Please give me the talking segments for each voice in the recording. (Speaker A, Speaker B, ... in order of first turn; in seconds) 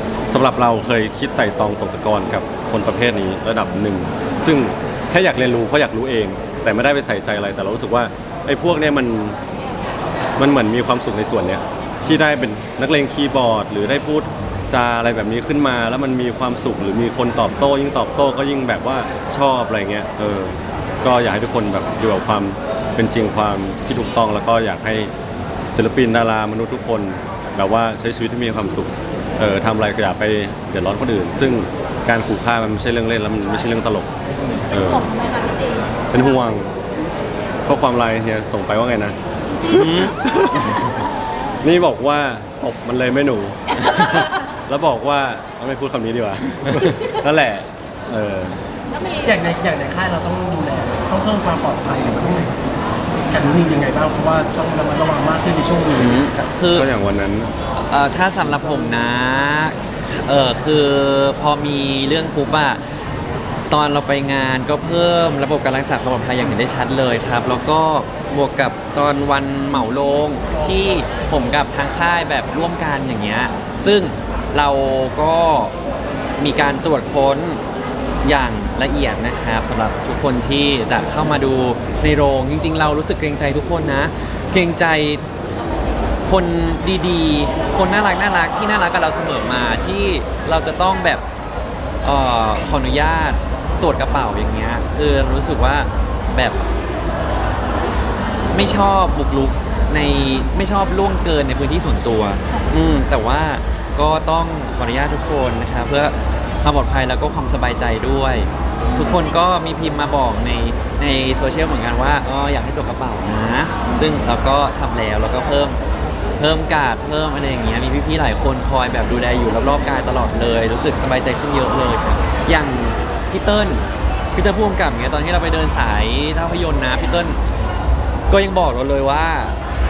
Speaker A: 0.3-9.4, 10.4-25.1, 25.7-34.1, 34.7-35.1, 36.1-36.7, 37.6-39.2, 41.6-48.6, 56.7-57.5
Speaker B: 34.6-36.4, 43.8-44.2, 48.9-49.5, 108.8-109.4, 113.8-114.1
Speaker C: 39.7-40.9, 55.9-56.9, 57.8-62.8, 63.7-75.7, 76.4-77.6, 78.2-85.2, 86.2-91.2, 92.0-96.6, 98.5-115.8, 116.4-123.8, 124.3-127.4, 128.3-129.6
Speaker D: 49.2-52.6, 53.3-56.2